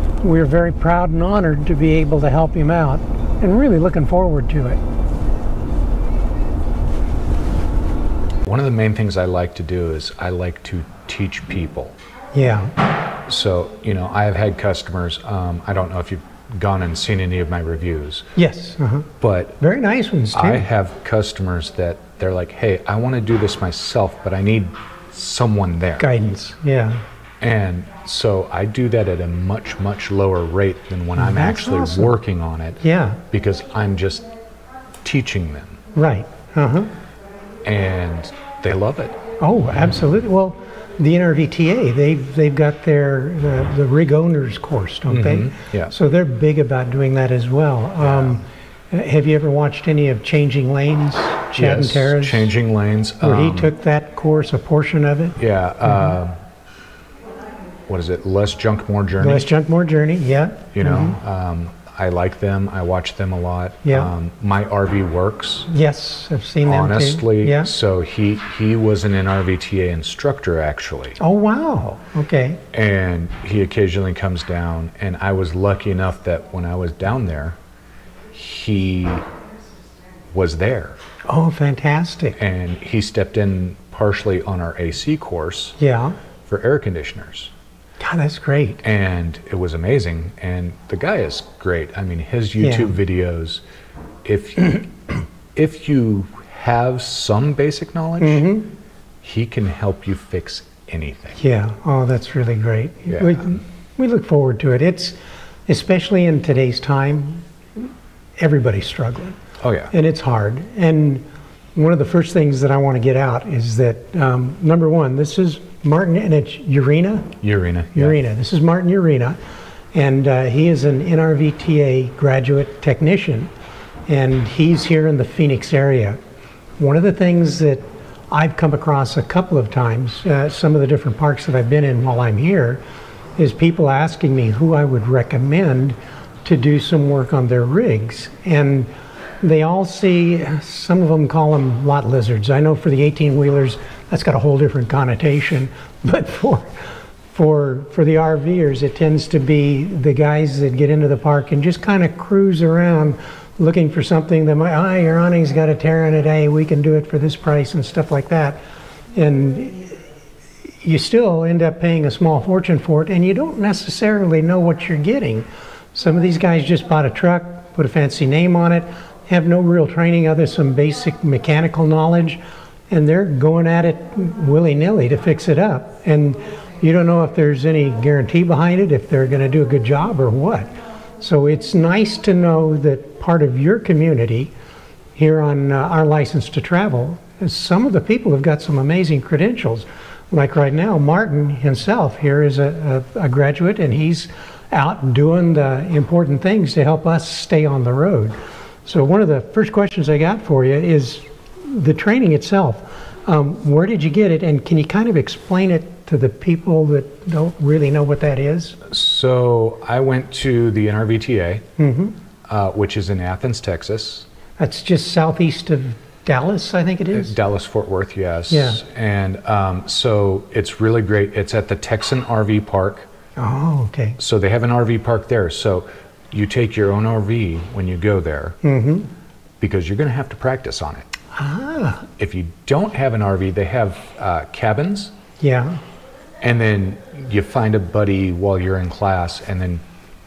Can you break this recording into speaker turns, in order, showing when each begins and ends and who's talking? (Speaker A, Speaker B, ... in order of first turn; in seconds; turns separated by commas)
Speaker A: 0.2-4.8, Speaker B: 8.4-11.9, Speaker A: 12.3-12.7, Speaker B: 13.2-18.3, Speaker A: 18.4-20.6, Speaker B: 19.2-19.6, Speaker B: 20.3-26.1, Speaker A: 26.0-27.0, Speaker B: 27.4-34.3, Speaker A: 31.2-32.1, Speaker A: 32.8-33.2, Speaker B: 35.0-35.8, Speaker A: 35.9-36.9, Speaker B: 37.6-39.2, Speaker A: 39.4-52.5, Speaker B: 45.1-45.9, Speaker B: 48.0-48.4, Speaker B: 51.5-53.7, Speaker A: 53.2-56.1, Speaker B: 55.4-56.3, Speaker B: 57.9-59.5, Speaker A: 59.2-61.2, Speaker B: 60.7-65.7, Speaker A: 63.8-64.1, Speaker A: 65.7-67.7, Speaker B: 66.6-71.2, Speaker A: 71.2-72.6, Speaker B: 72.7-77.6, Speaker B: 78.3-79.2, Speaker B: 80.3-81.0, Speaker A: 81.3-82.4, Speaker B: 82.4-85.8, Speaker A: 85.8-86.2, Speaker B: 86.5-87.5, Speaker A: 88.0-88.8, Speaker B: 88.8-93.6, Speaker A: 92.6-92.9, Speaker B: 94.2-94.9, Speaker B: 95.5-98.5, Speaker A: 98.2-98.7, Speaker B: 99.2-101.4, Speaker A: 101.4-105.2, Speaker B: 103.1-103.5, Speaker A: 105.7-109.4, Speaker B: 109.6-109.9, Speaker A: 109.9-111.2, Speaker A: 111.7-117.3, Speaker B: 117.4-118.2, Speaker A: 117.9-119.4, Speaker A: 119.9-123.5, Speaker A: 124.1-126.2, Speaker A: 126.8-132.8, Speaker A: 133.4-138.9, Speaker A: 139.4-146.7, Speaker A: 147.3-158.6, Speaker A: 159.1-160.0, Speaker A: 160.8-184.5, Speaker A: 185.2-208.8, Speaker B: 208.8-211.7, Speaker A: 211.8-212.2, Speaker B: 212.5-214.3, Speaker A: 214.6-217.3, Speaker B: 217.1-223.1, Speaker A: 218.5-218.8, Speaker A: 223.4-224.2, Speaker B: 224.2-228.6, Speaker A: 228.6-229.1, Speaker B: 229.6-231.1, Speaker A: 231.3-232.1, Speaker B: 232.2-235.1, Speaker A: 235.4-235.8, Speaker B: 236.4-239.8